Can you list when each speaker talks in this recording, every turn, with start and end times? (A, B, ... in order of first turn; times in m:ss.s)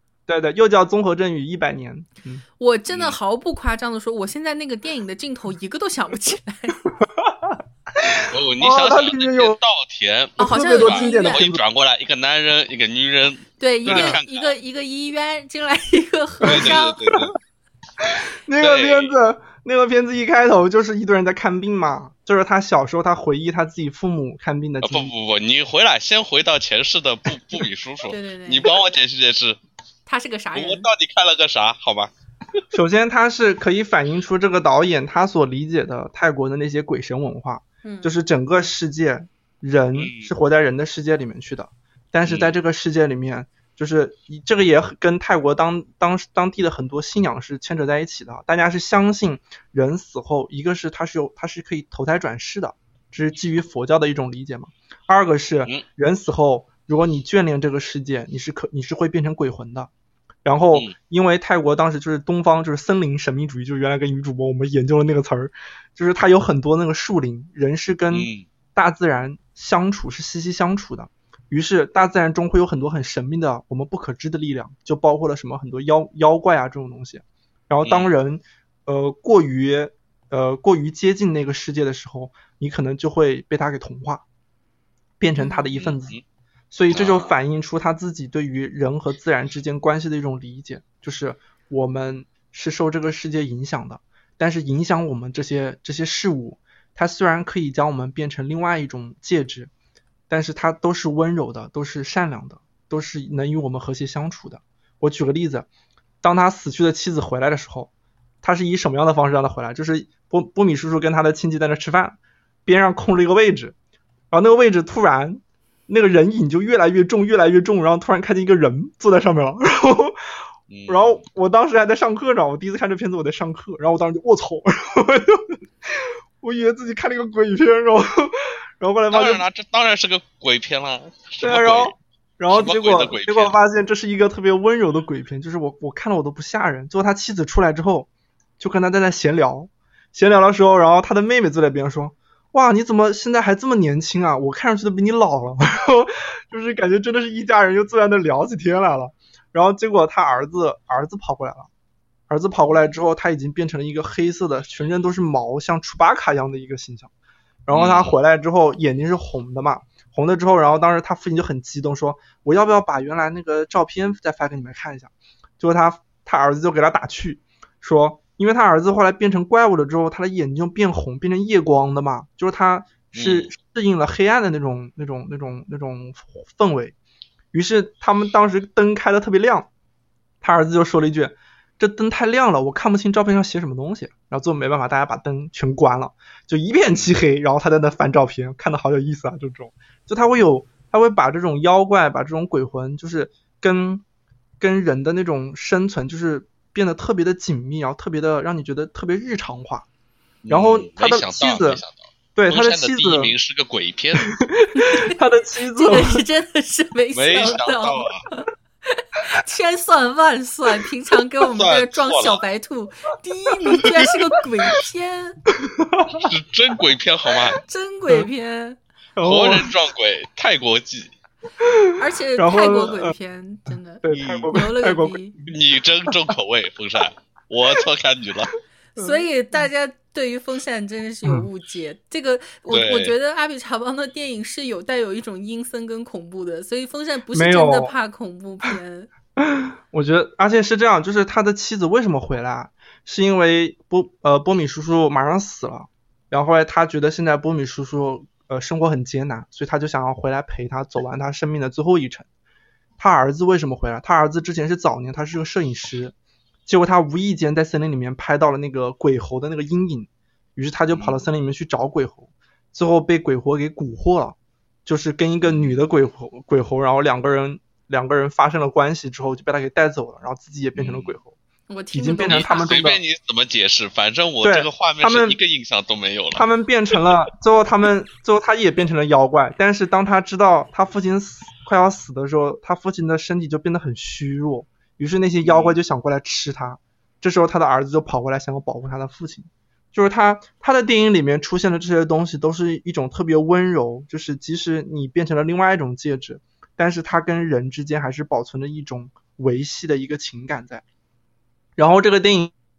0:00.3-0:02.4 A
0:02.6-0:06.8 B
0:02.9-0:03.2 C
0:07.0-0:09.6 A
0:08.3-0:14.5 C
0:10.4-0:11.4 B
0:10.4-0:11.6 A
0:13.6-0:17.1 B
0:13.8-0:14.2 A
0:16.4-0:17.3 C
0:16.4-0:17.2 A
0:18.0-0:25.1 A
0:18.6-0:19.1 C
0:24.8-0:29.6 C
0:28.1-0:28.7 B
0:30.0-0:30.9 B
0:30.5-0:32.1 C
0:32.7-0:59.9 A
0:37.8-0:38.1 B
0:40.0-0:40.3 C
0:42.2-0:42.5 C
1:00.4-1:24.2 A
1:08.1-1:08.4 C
1:17.8-1:18.1 C
1:25.2-1:26.1 A
1:25.4-1:25.7 B
1:25.8-1:26.2 C
1:26.7-1:39.7 A
1:26.9-1:27.3 C
1:40.3-1:45.7 A
1:46.2-1:47.9 A
1:48.4-1:53.7 A
1:54.3-2:00.2 A
2:00.7-2:01.2 C
2:00.9-2:09.4 A
2:09.1-2:12.0 C
2:11.4-2:18.1 A
2:12.5-2:13.6 C
2:18.6-2:31.7 A
2:32.3-2:37.1 A
2:37.6-2:56.9 A
2:37.7-2:38.2 C
2:53.1-2:53.5 C
2:57.5-2:59.7 A
3:00.4-3:14.0 A
3:14.6-3:19.9 A
3:20.4-3:24.3 C
3:20.5-3:21.8 A
3:22.4-3:23.3 A
3:24.2-3:26.2 A
3:24.8-3:25.1 B
3:25.7-3:35.4 B
3:27.1-3:28.2 C
3:31.4-3:32.4 C
3:35.6-3:36.3 A
3:36.2-3:37.6 C
3:37.6-3:38.8 B
3:39.2-3:39.7 A
3:39.2-3:41.1 C
3:41.6-3:43.1 A
3:42.0-3:45.3 B
3:44.0-3:45.5 A
3:44.1-3:44.5 C
3:45.5-3:48.5 C
3:48.9-3:59.1 B
3:49.0-3:49.2 A
3:52.7-3:53.1 C
3:57.3-3:57.9 A
3:59.4-4:12.3 A
4:13.0-4:16.1 A
4:16.6-4:31.3 A
4:20.9-4:21.2 C
4:25.4-4:25.7 C
4:30.7-4:31.2 C
4:31.7-4:32.8 B
4:31.9-4:33.0 A
4:32.3-4:36.4 C
4:34.4-4:35.4 A
4:36.3-5:00.8 A
4:45.4-4:45.8 C
5:01.8-5:02.5 A